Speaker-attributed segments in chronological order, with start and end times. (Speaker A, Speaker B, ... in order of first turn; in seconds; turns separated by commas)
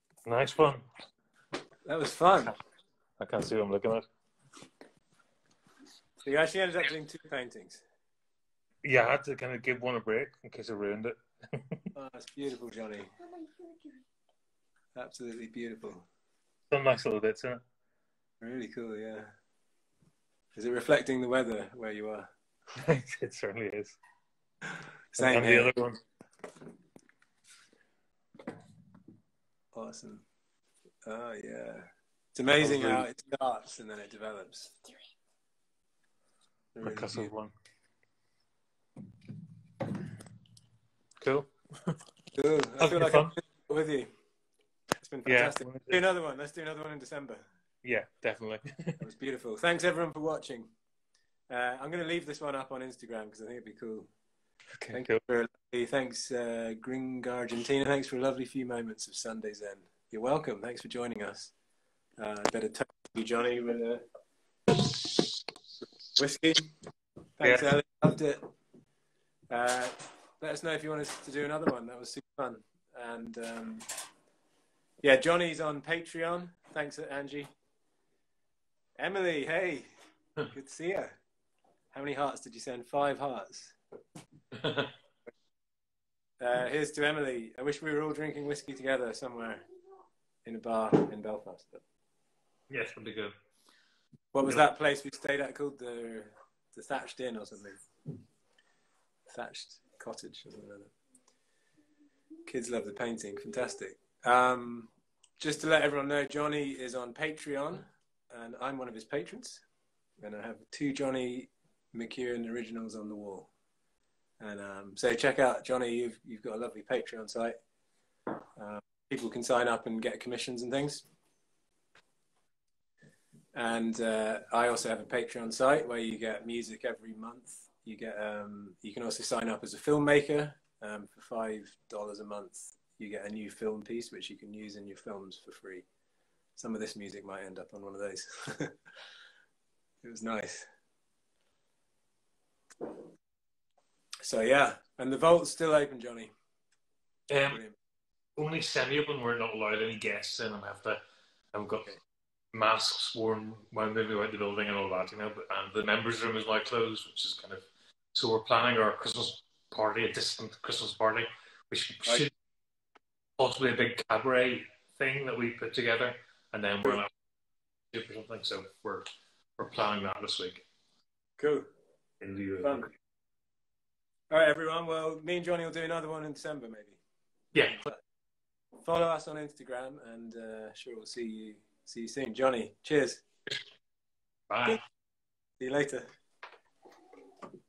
Speaker A: 0.2-0.8, Speaker B: 1.9-2.5, Speaker A: 3.2-4.0, Speaker B: 6.2-7.8, Speaker A: 8.8-11.9, Speaker B: 11.9-13.1, Speaker B: 14.9-16.1, Speaker A: 16.7-17.6, Speaker B: 18.4-19.3, Speaker B: 20.5-22.3, Speaker A: 22.8-24.0, Speaker B: 25.1-25.7, Speaker A: 25.2-26.0, Speaker B: 29.7-30.2, Speaker B: 31.0-34.8, Speaker A: 32.6-33.1, Speaker B: 36.7-37.3, Speaker A: 36.8-37.5, Speaker A: 41.2-42.0, Speaker B: 42.3-44.1, Speaker A: 42.8-43.3, Speaker B: 45.0-47.4, Speaker A: 45.2-46.0, Speaker A: 47.8-49.0, Speaker B: 49.0-50.7, Speaker B: 51.5-54.1, Speaker B: 54.8-61.5, Speaker A: 54.9-55.2, Speaker B: 62.2-64.0, Speaker B: 66.1-66.7, Speaker B: 67.4-68.5, Speaker A: 67.4-67.7, Speaker B: 69.5-73.9, Speaker B: 75.0-77.5, Speaker B: 79.0-79.9, Speaker B: 80.5-81.2, Speaker B: 81.9-83.8, Speaker A: 84.5-84.9, Speaker B: 86.4-89.6, Speaker B: 90.4-91.8, Speaker A: 92.7-93.3, Speaker B: 94.3-97.8, Speaker B: 99.3-100.9, Speaker B: 102.5-109.6, Speaker B: 110.2-113.5, Speaker B: 114.4-117.5, Speaker B: 118.6-121.0, Speaker B: 123.5-135.8, Speaker B: 136.6-138.8, Speaker B: 140.0-140.7, Speaker B: 144.2-146.3, Speaker A: 147.3-147.6, Speaker B: 147.5-147.8, Speaker A: 148.4-151.0, Speaker A: 151.5-151.9, Speaker A: 152.5-162.3, Speaker A: 163.4-167.1, Speaker A: 167.9-170.6, Speaker B: 171.4-171.7, Speaker A: 172.2-172.9, Speaker B: 172.6-172.9, Speaker B: 174.3-177.0, Speaker A: 177.5-177.8, Speaker B: 177.7-178.0, Speaker B: 178.8-183.2, Speaker A: 184.5-184.8, Speaker B: 185.6-186.1